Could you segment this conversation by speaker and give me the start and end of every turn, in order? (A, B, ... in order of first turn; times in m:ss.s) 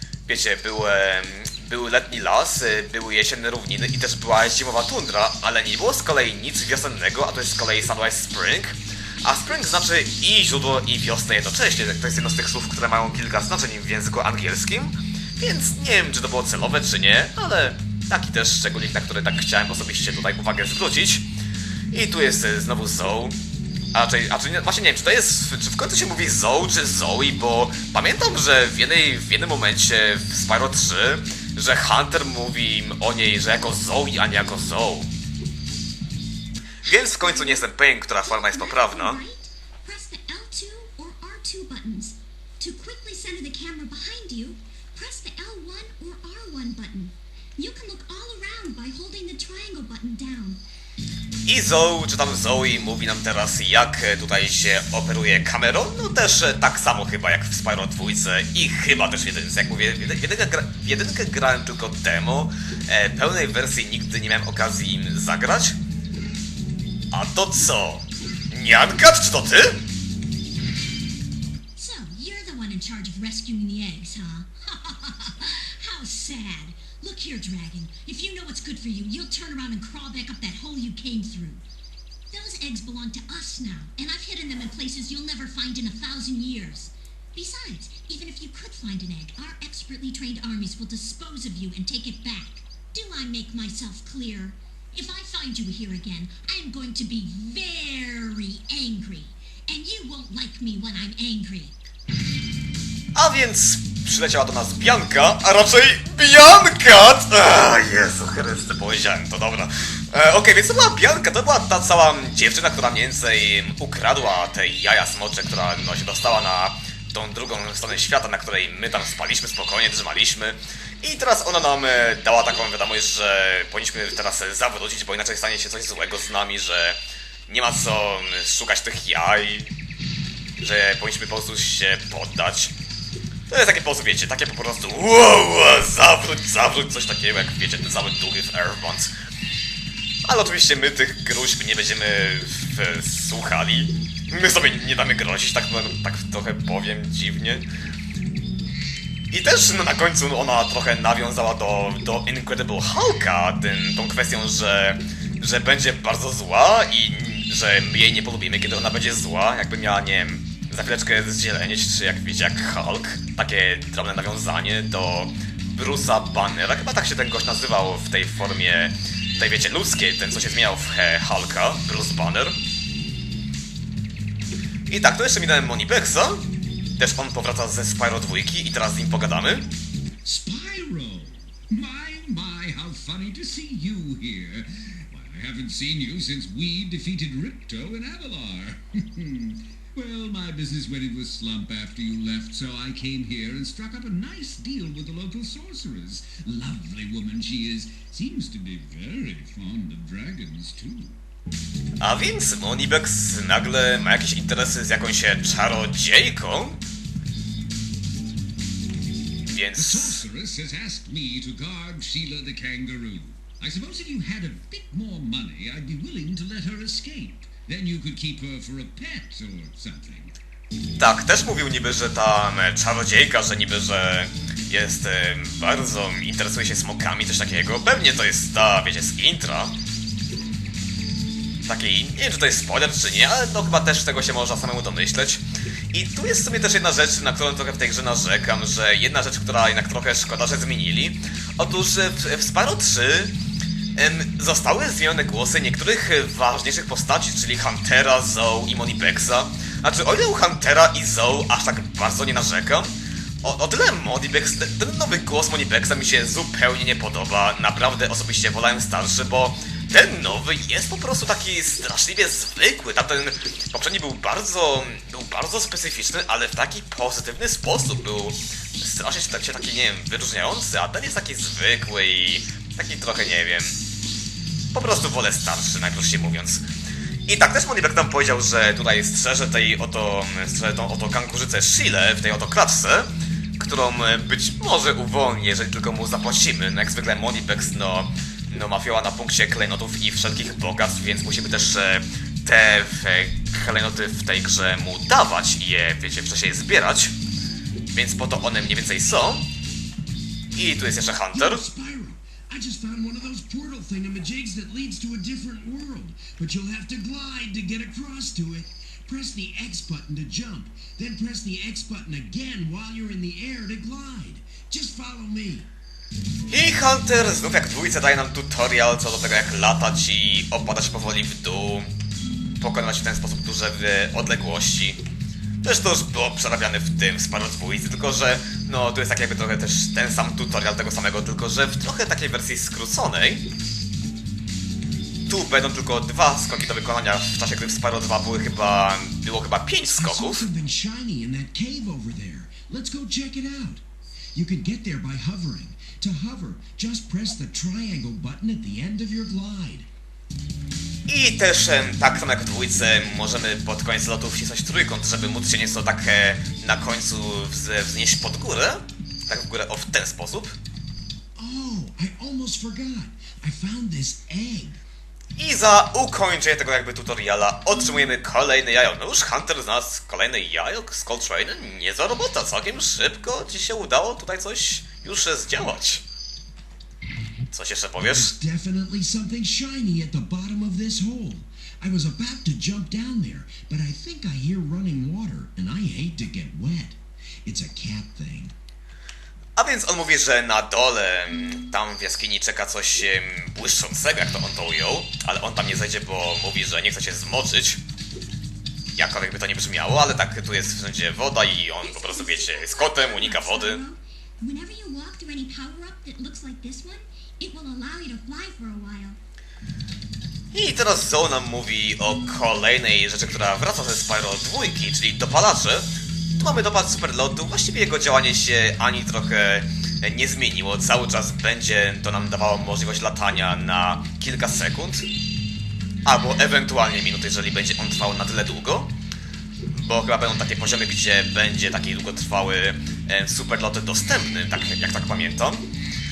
0:00.3-0:21.3 A
0:21.9-0:23.4 A
0:23.9-0:35.1 A
0:36.8-0:39.2 A
0:37.0-0:37.7 B
0:38.2-0:50.6 B
0:51.5-1:05.8 A
1:07.1-1:09.8 A
1:11.8-1:21.6 B
1:22.3-1:41.7 B
1:43.1-2:09.7 A
2:10.6-2:12.7 A
2:13.5-2:19.1 A
2:20.3-2:27.6 A
2:29.3-2:52.6 A
2:54.9-2:56.4 A
2:57.0-2:59.7 A
3:00.2-3:21.2 C
3:22.0-3:26.8 A
3:29.5-3:30.2 A
3:29.8-3:40.4 C
3:41.0-3:49.8 A
3:51.7-4:03.3 A
4:04.0-4:33.8 A
4:34.7-4:36.6 A
4:37.3-4:57.1 A
4:57.9-4:59.5 A
5:00.6-5:01.6 A
5:01.3-5:15.7 D
5:16.5-5:21.9 A
5:22.6-5:25.0 A
5:25.6-5:33.4 A
5:35.3-5:40.5 A
5:40.0-5:43.8 D
5:44.3-5:49.9 D
5:51.1-6:00.6 A
6:01.4-6:04.8 D
6:05.4-6:16.0 A
6:17.5-6:18.3 A
6:18.0-6:28.5 D
6:29.6-6:37.8 A
6:39.0-6:43.8 A
6:41.8-6:49.2 B
6:50.5-7:05.1 A
7:06.0-7:08.9 A
7:09.7-7:15.6 A